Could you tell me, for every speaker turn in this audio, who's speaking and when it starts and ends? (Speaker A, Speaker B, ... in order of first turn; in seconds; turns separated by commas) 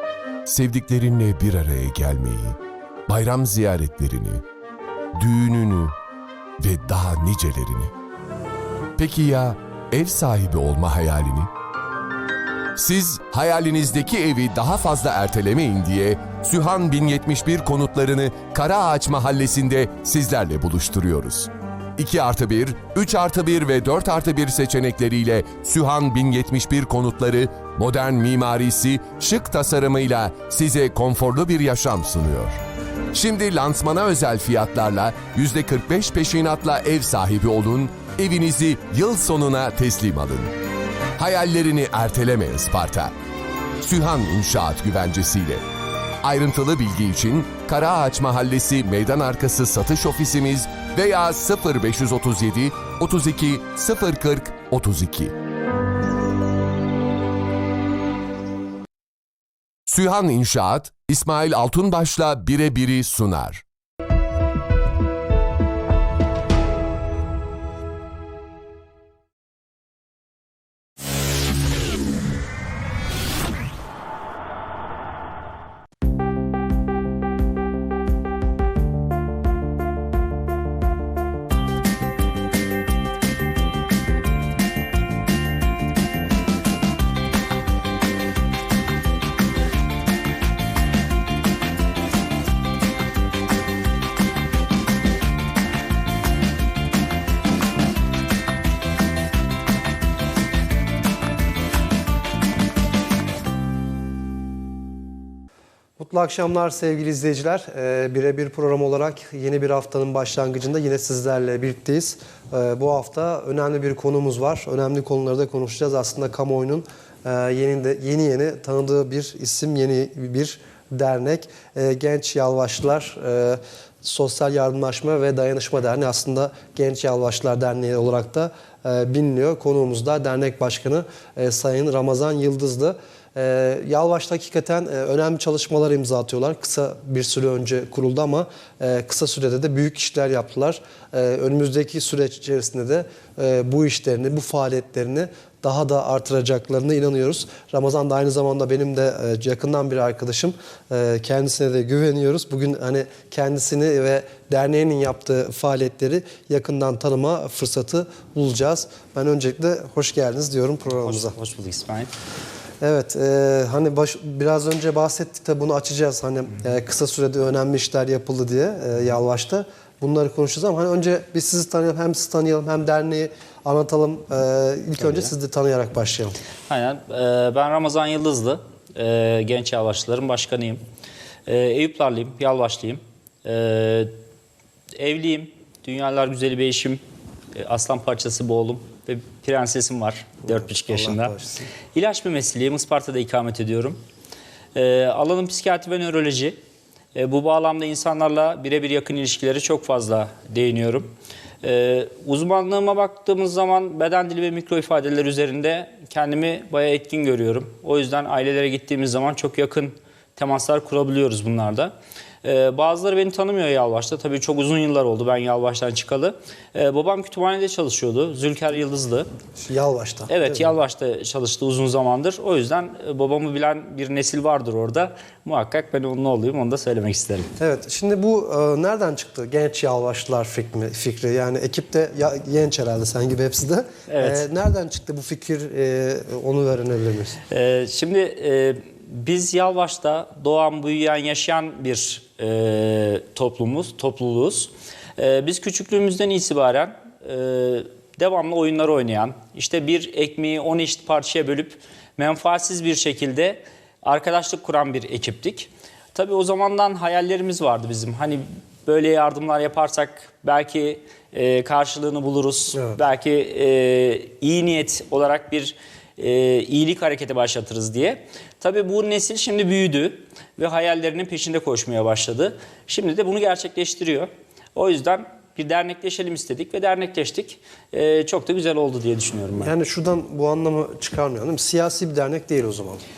Speaker A: 0.5-4.4, Speaker A: 5.2-5.9, Speaker A: 6.6-7.9, Speaker A: 8.9-11.5, Speaker A: 12.8-32.6, Speaker A: 33.1-40.5, Speaker A: 41.2-43.1, Speaker A: 43.8-45.6, Speaker A: 46.2-55.3, Speaker A: 59.9-63.6, Speaker B: 106.0-161.3, Speaker C: 160.9-162.1, Speaker B: 162.8-176.4, Speaker C: 175.0-175.3, Speaker C: 176.7-180.8, Speaker C: 181.5-184.1, Speaker C: 185.0-187.0, Speaker C: 187.5-191.3, Speaker B: 190.5-191.7, Speaker C: 191.9-194.0, Speaker C: 194.7-196.6, Speaker C: 197.1-201.1, Speaker C: 201.6-219.3, Speaker B: 219.7-220.8, Speaker C: 220.3-227.5, Speaker B: 227.6-237.4, Speaker C: 234.1-234.5, Speaker C: 237.5-279.7, Speaker B: 279.6-283.0